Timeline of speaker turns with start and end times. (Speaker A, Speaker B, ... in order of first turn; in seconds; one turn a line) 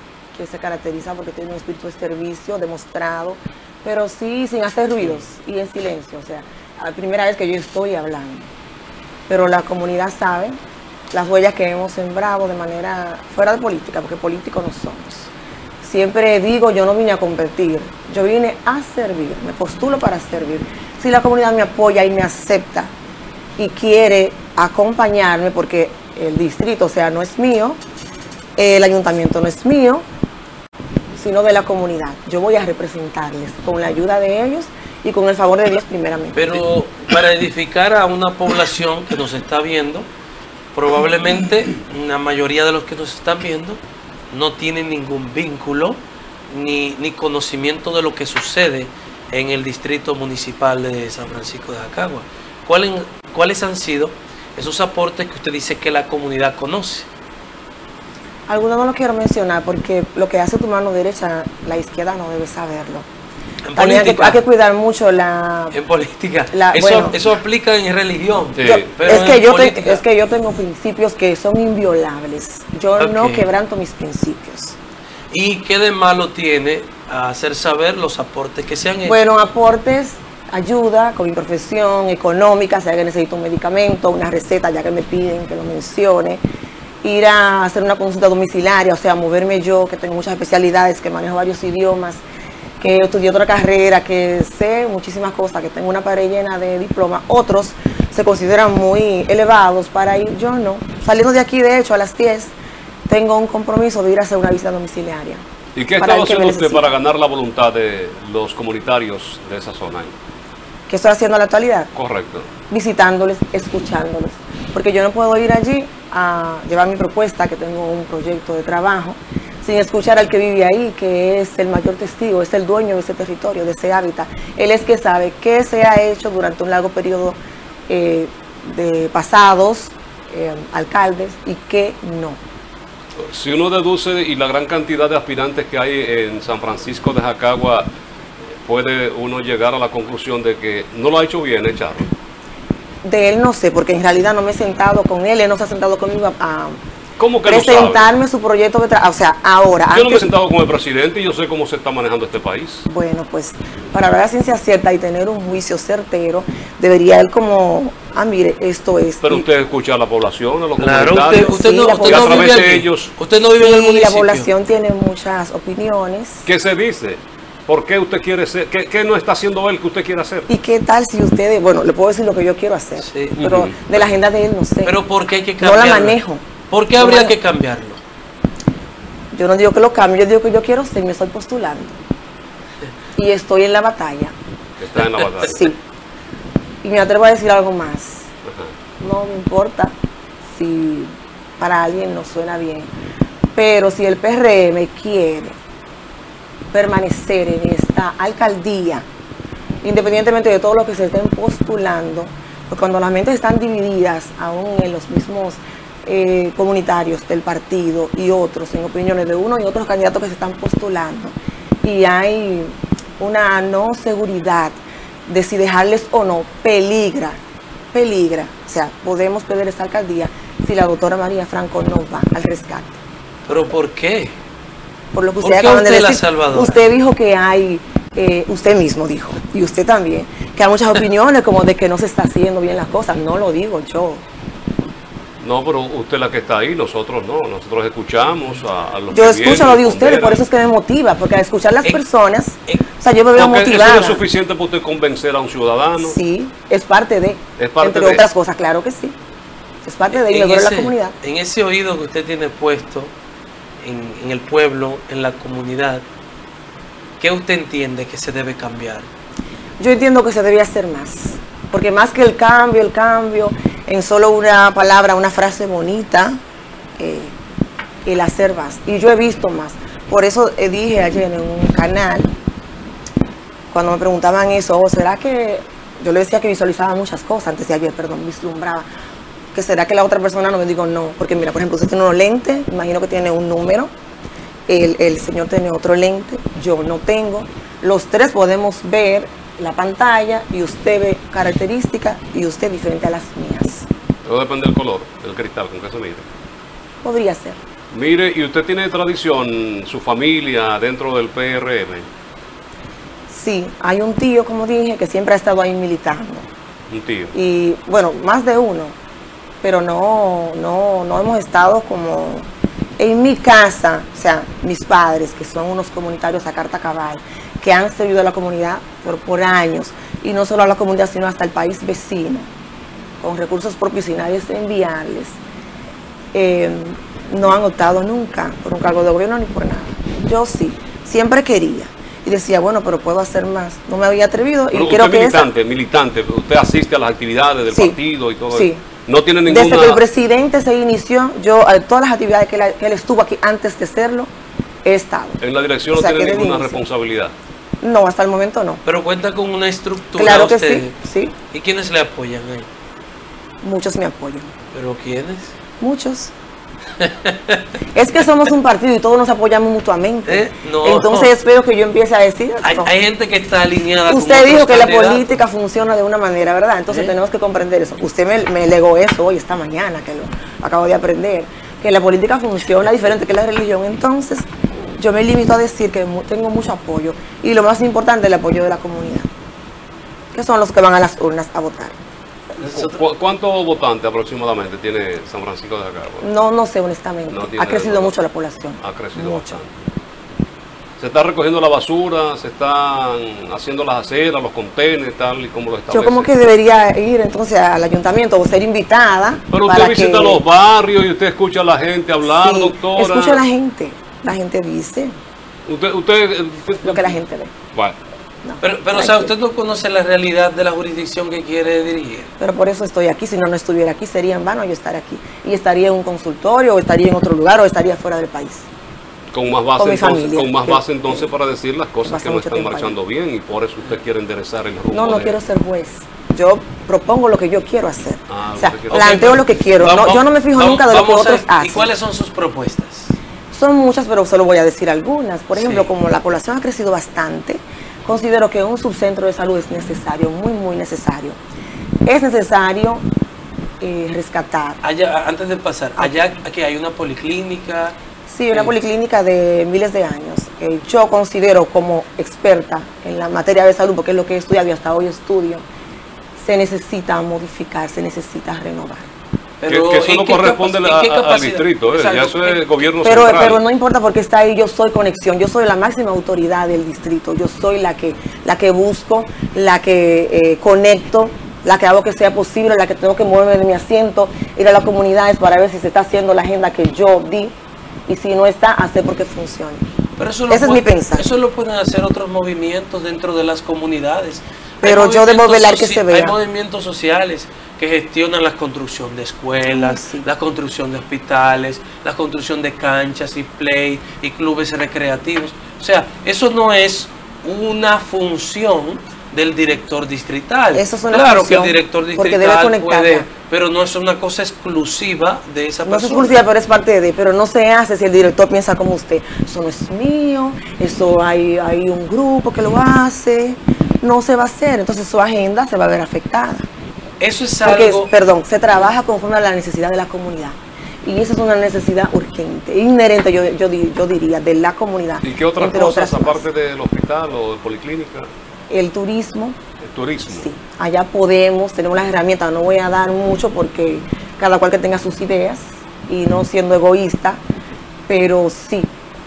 Speaker A: 0.3-8.5
Speaker A: 9.3-10.6
Speaker A: 11.1-15.3
Speaker A: 15.8-22.9
Speaker A: 23.6-27.8
Speaker A: 28.6-30.1
Speaker A: 31.1-36.6
Speaker B: 36.4-40.1
Speaker B: 40.7-43.8
Speaker B: 44.3-57.1
Speaker A: 58.5-63.1
Speaker B: 63.7-64.4
Speaker A: 63.8-65.8
Speaker B: 65.7-70.0
Speaker A: 66.5-67.2
Speaker C: 68.6-68.9
Speaker A: 68.6-74.8
Speaker B: 73.0-73.5
Speaker B: 75.3-79.2
Speaker A: 79.1-86.4
Speaker A: 87.0-92.2
Speaker A: 92.8-102.5
Speaker A: 103.1-105.4
Speaker C: 105.8-110.2
Speaker A: 106.0-106.9
Speaker A: 110.9-111.9
Speaker C: 112.0-112.5
Speaker A: 112.7-132.4
Speaker C: 133.2-137.9
Speaker C: 138.5-142.1
Speaker A: 143.0-146.8
Speaker C: 147.2-148.1
Speaker A: 147.5-150.3
Speaker C: 149.9-152.9
Speaker A: 152.9-159.4
Speaker C: 159.2-163.1
Speaker B: 160.8-164.5
Speaker A: 161.3-162.6
Speaker A: 163.5-166.4
Speaker C: 166.4-170.5
Speaker A: 170.5-175.0
Speaker B: 173.0-173.5
Speaker C: 173.4-173.9
Speaker B: 174.8-176.2
Speaker A: 175.6-176.5
Speaker B: 176.7-178.0
Speaker A: 177.0-177.4
Speaker A: 179.3-182.0
Speaker A: 183.2-184.3
Speaker C: 184.8-185.7
Speaker A: 185.4-185.8
Speaker A: 186.8-188.3
Speaker C: 188.5-188.7
Speaker A: 189.0-190.0
Speaker A: 190.5-192.9
Speaker A: 193.6-195.6
Speaker A: 196.7-199.1
Speaker A: 199.8-217.4
Speaker A: 217.9-223.0
Speaker B: 223.5-224.4
Speaker A: 225.1-234.2
Speaker B: 225.4-226.8
Speaker C: 235.4-240.4
Speaker A: 239.1-244.2
Speaker C: 243.3-246.2
Speaker A: 246.0-249.2
Speaker C: 247.6-248.2
Speaker A: 249.8-251.2
Speaker B: 250.1-253.1
Speaker B: 253.8-256.1
Speaker B: 257.2-259.1
Speaker A: 259.8-266.4
Speaker A: 267.0-267.4
Speaker A: 268.1-272.3
Speaker A: 273.7-278.9
Speaker A: 279.5-283.9
Speaker A: 284.7-293.9
Speaker C: 294.2-296.3
Speaker A: 297.0-297.6
Speaker C: 297.9-302.1
Speaker A: 303.3-306.5
Speaker C: 306.9-307.3
Speaker A: 307.3-308.9
Speaker A: 309.6-322.5
Speaker A: 323.2-325.4
Speaker A: 326.3-335.5
Speaker C: 334.7-340.0
Speaker A: 337.7-338.0
Speaker A: 338.5-338.8
Speaker A: 339.5-344.3
Speaker A: 344.9-345.4
Speaker C: 345.4-347.4
Speaker A: 345.9-346.8
Speaker A: 347.8-348.8
Speaker B: 348.9-351.0
Speaker A: 350.2-351.3
Speaker B: 351.5-352.7
Speaker A: 353.6-354.5
Speaker B: 354.7-355.6
Speaker A: 355.8-356.3
Speaker B: 357.0-357.7
Speaker A: 357.9-362.9
Speaker B: 360.3-361.3
Speaker B: 362.6-365.4
Speaker A: 364.1-374.5
Speaker A: 375.0-379.3
Speaker A: 380.3-382.0
Speaker B: 382.6-383.0
Speaker C: 382.8-386.3
Speaker A: 386.2-389.5
Speaker C: 387.3-388.2
Speaker C: 388.8-389.7
Speaker C: 391.0-396.3
Speaker A: 395.9-400.4
Speaker C: 399.5-403.4
Speaker A: 402.2-405.2
Speaker C: 405.7-407.2
Speaker A: 406.8-407.5
Speaker A: 408.4-409.3
Speaker B: 408.6-412.3
Speaker A: 412.4-418.7
Speaker C: 419.3-425.4
Speaker A: 419.8-421.3
Speaker A: 422.1-423.0
Speaker A: 424.9-431.9
Speaker C: 428.3-429.3
Speaker B: 428.9-433.1
Speaker A: 433.5-441.4
Speaker B: 435.6-435.9
Speaker A: 442.1-443.1
Speaker A: 443.8-444.8
Speaker B: 444.8-448.0
Speaker A: 448.3-455.6
Speaker A: 456.4-459.1
Speaker B: 459.6-462.6
Speaker C: 459.7-463.6
Speaker A: 463.0-477.5
Speaker A: 478.1-479.9
Speaker B: 480.2-506.4
Speaker A: 480.5-481.3
Speaker A: 484.8-486.4
Speaker A: 489.7-490.3
Speaker A: 500.7-503.3
Speaker A: 505.9-516.7
Speaker B: 517.2-518.1
Speaker A: 517.6-526.4
Speaker C: 525.2-528.3
Speaker A: 528.7-529.6
Speaker C: 529.8-530.5
Speaker A: 530.3-537.4
Speaker A: 538.1-538.9